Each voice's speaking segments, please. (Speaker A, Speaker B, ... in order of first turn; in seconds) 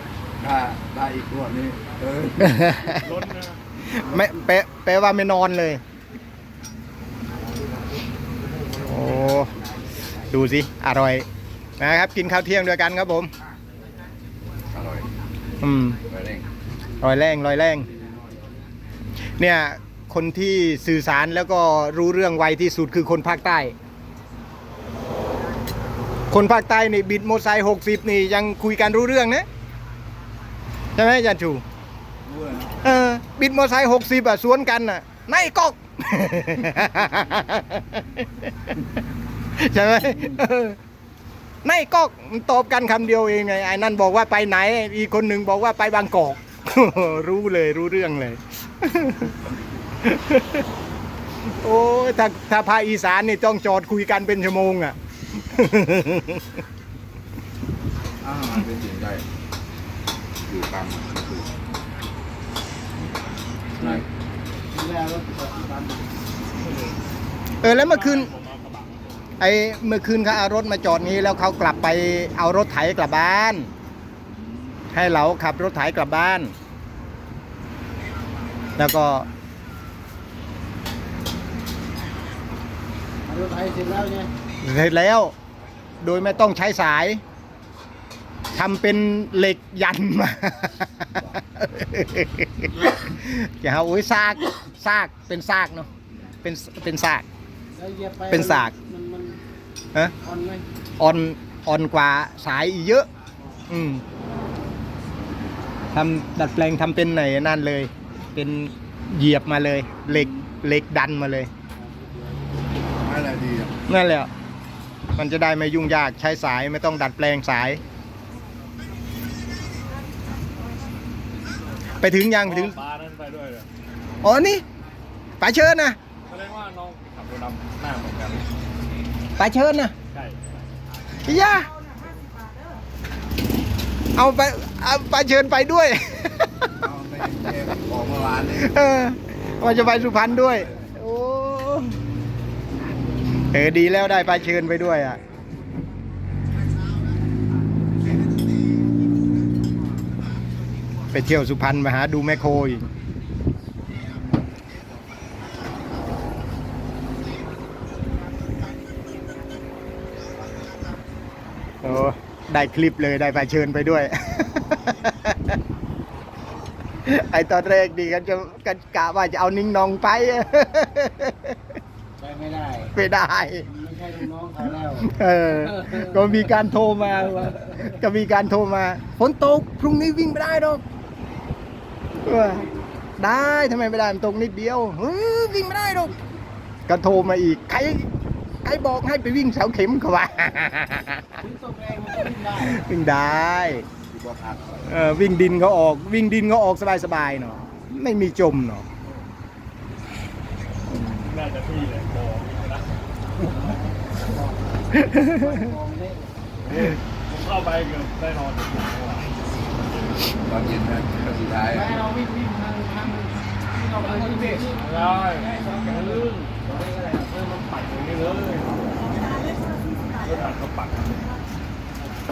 Speaker A: 0.4-2.8, 14.7-15.1, 16.1-16.5, 32.3-32.7, 58.2-59.2, 60.5-61.5, 113.0-113.8, 136.8-138.7, 139.7-140.7, 194.1-194.9, 210.5-212.0
Speaker B: 2.4-3.0, 3.9-5.8, 8.8-9.5, 10.3-11.2, 11.8-13.3, 15.6-16.0, 17.0-17.9, 19.4-23.7, 26.3-29.5, 31.0-31.6, 32.8-38.3, 39.6-40.8, 41.6-49.3, 50.0-50.6, 51.5-56.4, 67.6-68.3, 69.4-73.7, 74.9-76.5, 78.8-79.3, 84.6-85.3, 86.0-87.2, 88.5-95.9, 96.4-97.2, 98.3-98.7, 101.0-103.1, 103.7-104.0, 105.9-111.5, 113.9-114.3, 115.2-117.8, 122.0-122.8, 124.2-124.6, 125.4-126.0, 129.4-129.9, 131.2-131.7, 134.2-136.7, 138.5-142.0, 143.5-145.2, 151.1-152.9, 161.8-165.4, 167.1-171.6, 172.9-173.7, 175.0-180.8, 182.2-186.2, 186.9-188.1, 188.6-191.4, 192.6-193.9, 194.9-198.8, 200.9-201.2
Speaker C: 3.0-3.6, 66.6-67.0, 67.6-69.2, 122.4-123.7, 126.3-128.5, 130.1-130.4, 201.1-202.9, 206.7-209.3, 214.7-216.6, 217.1-218.8, 220.2-221.2
Speaker D: 64.7-66.1, 83.3-84.3, 97.8-99.4, 100.2-100.6, 111.8-112.4, 172.2-172.9, 173.7-175.1, 191.4-192.9, 203.4-206.3, 211.7-214.8